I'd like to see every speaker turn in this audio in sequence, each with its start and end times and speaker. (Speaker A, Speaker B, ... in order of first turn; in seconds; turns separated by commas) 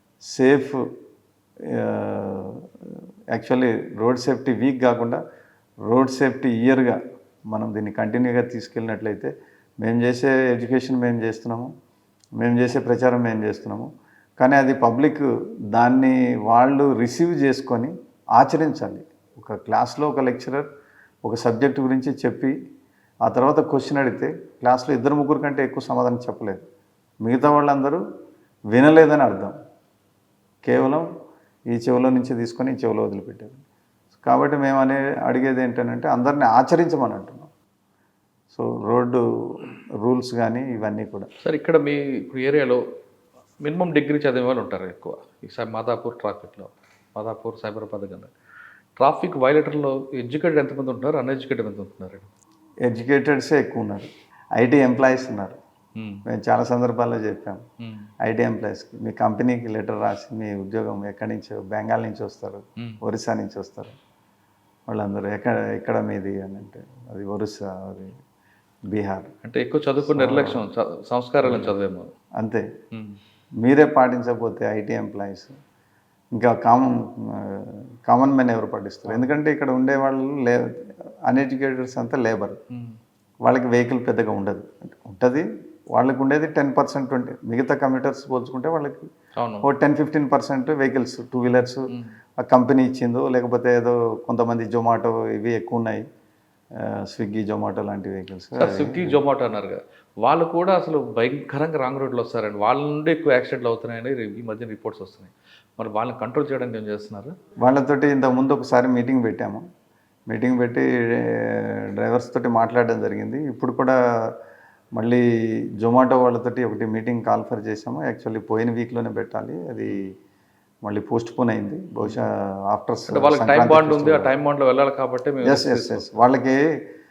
Speaker A: 0.3-0.8, Speaker A: 1.7-2.7, Speaker A: 3.3-5.2, Speaker A: 5.9-7.0, Speaker A: 7.5-9.3, Speaker A: 9.8-11.7, Speaker A: 12.4-20.7, Speaker A: 21.2-22.5, Speaker A: 23.2-26.6, Speaker A: 27.2-28.0, Speaker A: 28.7-29.6, Speaker A: 30.6-31.1, Speaker A: 31.7-33.6, Speaker A: 34.2-37.5, Speaker A: 38.5-41.3, Speaker B: 41.4-42.8, Speaker B: 43.6-48.3, Speaker B: 49.0-52.3, Speaker A: 52.9-55.6, Speaker B: 56.0-56.2, Speaker A: 56.3-57.6, Speaker B: 57.8-58.1, Speaker A: 58.2-64.0, Speaker A: 64.9-68.2, Speaker A: 68.9-69.3, Speaker B: 69.5-72.1, Speaker A: 70.0-70.7, Speaker A: 71.4-71.8, Speaker A: 72.4-72.7, Speaker B: 72.9-73.2, Speaker A: 73.6-75.5, Speaker A: 76.3-82.6, Speaker B: 79.1-79.3, Speaker B: 82.7-83.0, Speaker A: 83.4-89.1, Speaker B: 89.4-89.7, Speaker A: 89.6-91.8, Speaker B: 91.9-92.2, Speaker A: 92.4-96.1, Speaker A: 96.8-99.2, Speaker B: 98.5-107.3, Speaker A: 107.6-109.6, Speaker A: 110.3-114.3, Speaker A: 115.0-115.2, Speaker A: 115.8-120.1, Speaker A: 120.8-124.4, Speaker B: 123.1-126.3, Speaker A: 125.4-126.7